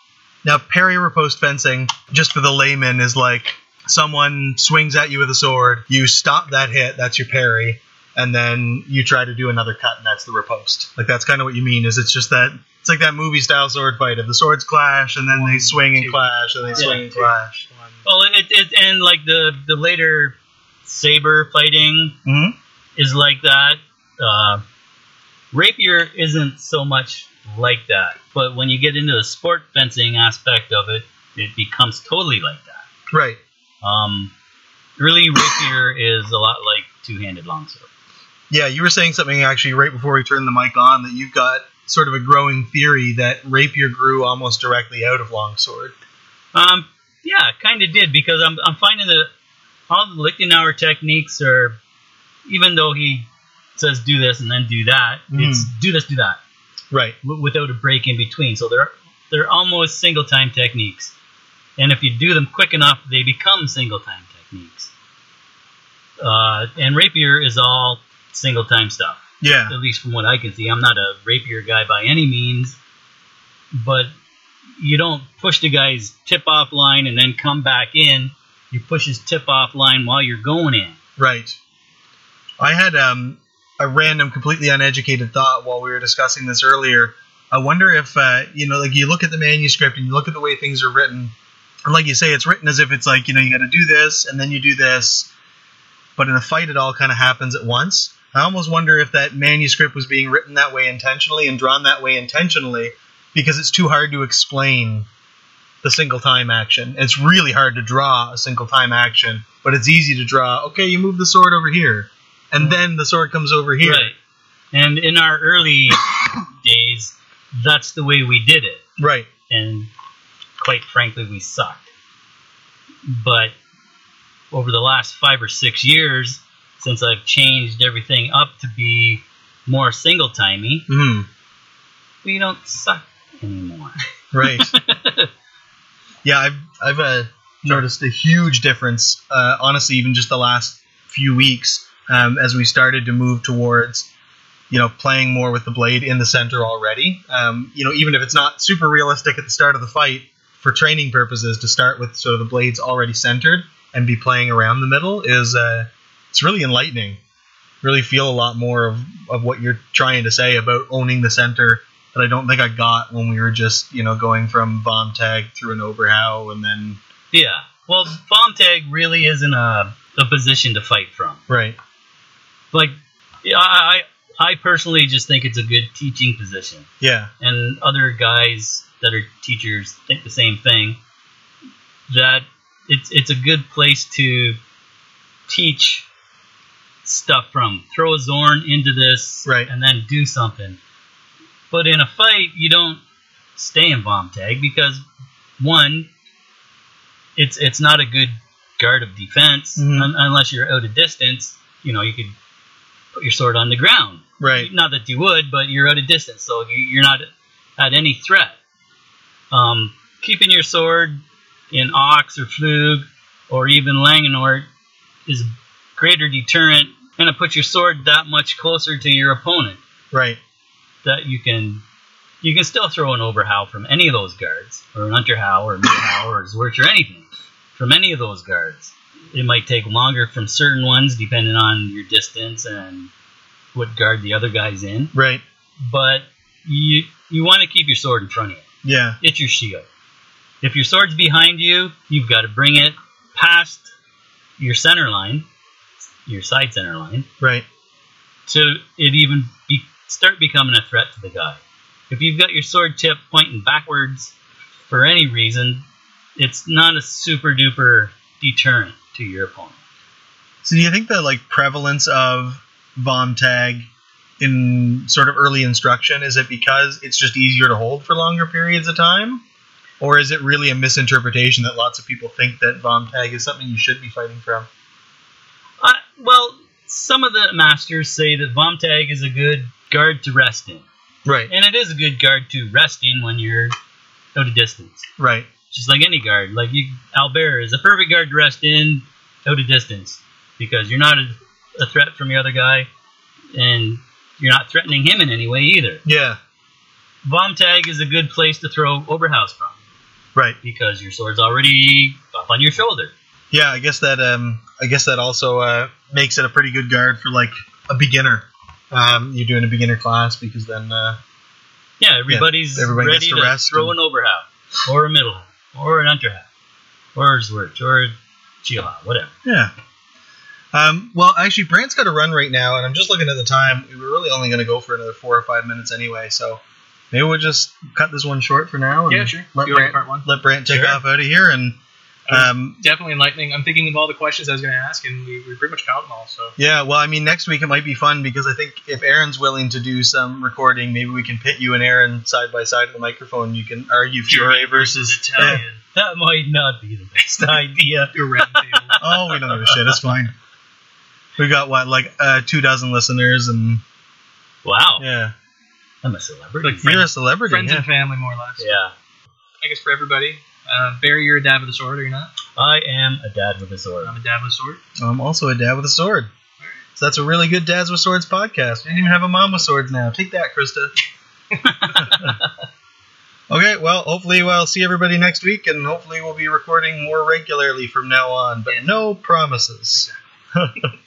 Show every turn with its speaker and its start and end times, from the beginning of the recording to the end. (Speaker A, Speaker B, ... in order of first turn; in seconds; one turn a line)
Speaker A: 0.4-17.6
Speaker B: 15.3-18.1
Speaker C: 16.8-17.0
Speaker C: 18.1-22.2
Speaker A: 22.2-22.6
Speaker C: 23.0-24.6
Speaker C: 25.5-32.9
Speaker A: 33.1-33.4
Speaker C: 33.8-34.3
Speaker C: 35.0-37.9
Speaker A: 38.5-46.0
Speaker C: 46.5-49.3
Speaker C: 49.9-51.8
Speaker C: 52.5-56.4
Speaker A: 55.3-55.7
Speaker A: 56.9-57.2
Speaker C: 57.2-61.1
Speaker C: 61.8-64.9
Speaker C: 66.2-72.8
Speaker A: 69.4-69.8
Speaker C: 73.7-74.1
Speaker C: 74.8-81.0
Speaker A: 81.2-81.6
Speaker A: 82.6-91.3
Speaker A: 91.9-95.3
Speaker A: 96.2-105.1
Speaker A: 105.8-114.1
Speaker C: 113.8-114.2
Speaker C: 114.7-118.8
Speaker A: 119.0-119.3
Speaker C: 119.5-119.9
Speaker C: 120.6-121.9
Speaker C: 123.1-123.5
Speaker C: 124.5-130.9
Speaker A: 130.9-131.3
Speaker C: 132.2-135.3
Speaker A: 134.3-134.8
Speaker A: 136.2-144.1
Speaker A: 144.7-157.2
Speaker A: 157.8-167.0
Speaker C: 167.3-171.4
Speaker A: 171.5-171.8
Speaker C: 172.7-176.9
Speaker A: 177.0-177.3
Speaker C: 177.4-181.0
Speaker C: 182.1-184.6
Speaker C: 185.5-186.1
Speaker C: 187.0-190.8
Speaker A: 189.4-189.7
Speaker C: 191.7-193.0
Speaker C: 193.6-195.0
Speaker C: 195.6-196.1
Speaker C: 197.4-202.3
Speaker A: 199.8-200.1
Speaker C: 203.2-207.3
Speaker A: 204.4-204.7
Speaker C: 207.8-208.6
Speaker C: 209.5-214.7
Speaker C: 215.3-219.8
Speaker A: 220.1-220.4
Speaker C: 221.0-221.8
Speaker C: 222.4-233.1
Speaker C: 233.8-235.1
Speaker A: 235.1-235.4
Speaker C: 235.8-238.7
Speaker A: 238.8-239.2
Speaker C: 239.2-239.9
Speaker C: 240.6-243.9
Speaker C: 244.6-245.5
Speaker C: 246.2-247.3
Speaker A: 247.4-247.7
Speaker C: 248.5-254.3
Speaker C: 254.9-255.8
Speaker C: 256.4-259.8
Speaker A: 260.6-263.9
Speaker A: 264.4-269.4
Speaker A: 270.0-274.7
Speaker C: 275.8-280.9
Speaker A: 281.3-281.5
Speaker C: 281.5-283.8
Speaker C: 284.4-285.1
Speaker A: 285.2-285.5
Speaker C: 285.7-292.9
Speaker C: 293.5-296.0
Speaker A: 296.1-296.4
Speaker C: 297.2-299.8
Speaker C: 300.6-303.1
Speaker A: 303.5-311.2
Speaker C: 312.0-316.5
Speaker A: 312.3-313.9
Speaker C: 317.1-319.3
Speaker A: 319.4-319.7
Speaker A: 320.7-331.8
Speaker B: 329.1-330.3
Speaker C: 330.7-331.0
Speaker B: 332.3-336.6
Speaker A: 332.3-332.8
Speaker A: 336.6-345.6
Speaker B: 344.3-345.7
Speaker C: 345.3-349.9
Speaker B: 348.1-349.0
Speaker A: 349.0-350.3
Speaker A: 351.4-353.8
Speaker C: 354.6-355.1
Speaker A: 355.0-355.4
Speaker C: 356.0-357.0
Speaker B: 356.6-358.8
Speaker A: 356.8-357.9
Speaker C: 358.6-358.9
Speaker B: 359.6-362.3
Speaker C: 362.6-364.1
Speaker B: 364.0-364.8
Speaker A: 365.0-366.3
Speaker A: 367.0-370.9
Speaker C: 371.6-372.5
Speaker B: 371.9-372.1
Speaker A: 372.0-372.3
Speaker A: 373.5-380.9
Speaker B: 378.7-379.0
Speaker B: 379.9-380.2